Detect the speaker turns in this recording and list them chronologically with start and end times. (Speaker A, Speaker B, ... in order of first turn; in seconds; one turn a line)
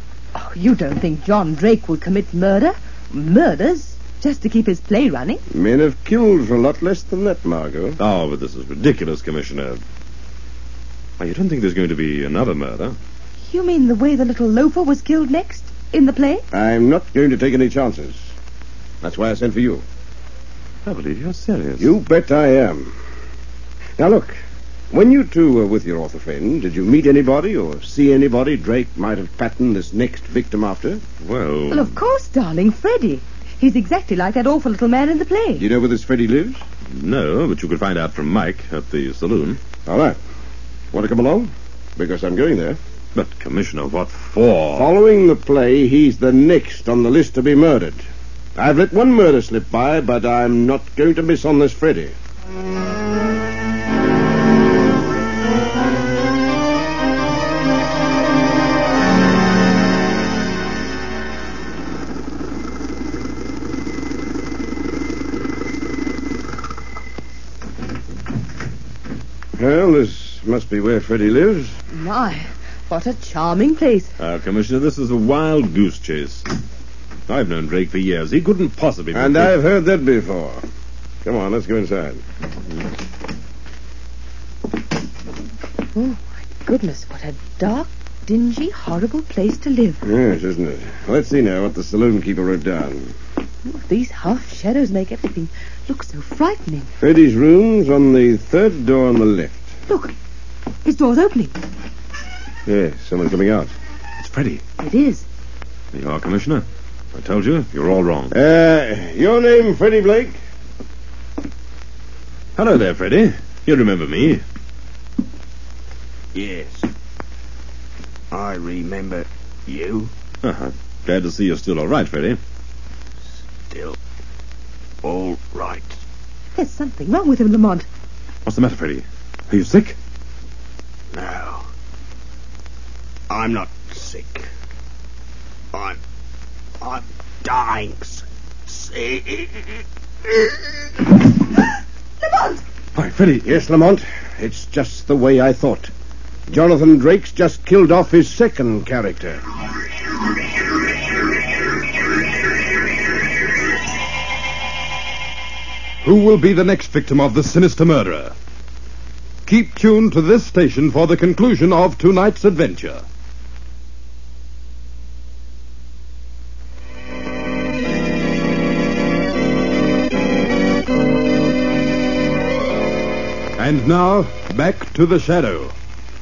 Speaker A: 0.3-5.4
Speaker B: 5.5-8.0
Speaker C: 8.0-9.8
Speaker C: 11.2-13.0
Speaker A: 13.4-16.4
Speaker B: 16.5-18.3
Speaker B: 19.0-19.8
Speaker C: 20.9-21.9
Speaker B: 21.8-22.9
Speaker B: 24.0-24.4
Speaker B: 24.9-31.0
Speaker C: 31.2-31.9
Speaker A: 31.7-35.6
Speaker B: 35.6-36.6
Speaker C: 36.9-39.6
Speaker B: 39.9-40.2
Speaker B: 40.9-42.8
Speaker C: 43.1-44.9
Speaker B: 44.7-48.0
Speaker B: 48.6-52.1
Speaker B: 69.6-71.8
Speaker A: 71.9-74.1
Speaker C: 74.2-76.5
Speaker C: 77.3-79.5
Speaker B: 79.1-80.6
Speaker B: 81.2-82.2
Speaker A: 86.0-90.0
Speaker B: 90.0-93.1
Speaker A: 93.7-96.9
Speaker B: 97.0-99.7
Speaker A: 99.9-100.1
Speaker A: 100.8-101.5
Speaker B: 102.7-103.7
Speaker C: 104.2-104.6
Speaker A: 104.8-105.3
Speaker C: 105.9-108.3
Speaker B: 108.3-110.4
Speaker C: 112.6-114.4
Speaker D: 116.3-116.9
Speaker D: 118.3-120.1
Speaker C: 120.4-122.4
Speaker D: 123.7-124.0
Speaker D: 125.0-126.0
Speaker A: 126.5-127.9
Speaker C: 128.4-130.0
Speaker D: 131.1-131.7
Speaker D: 133.3-134.5
Speaker D: 135.7-136.0
Speaker D: 136.8-139.7
Speaker A: 142.2-142.6
Speaker B: 143.0-145.9
Speaker B: 146.5-149.4
Speaker E: 156.0-158.3
Speaker E: 159.5-163.0
Speaker E: 173.6-175.7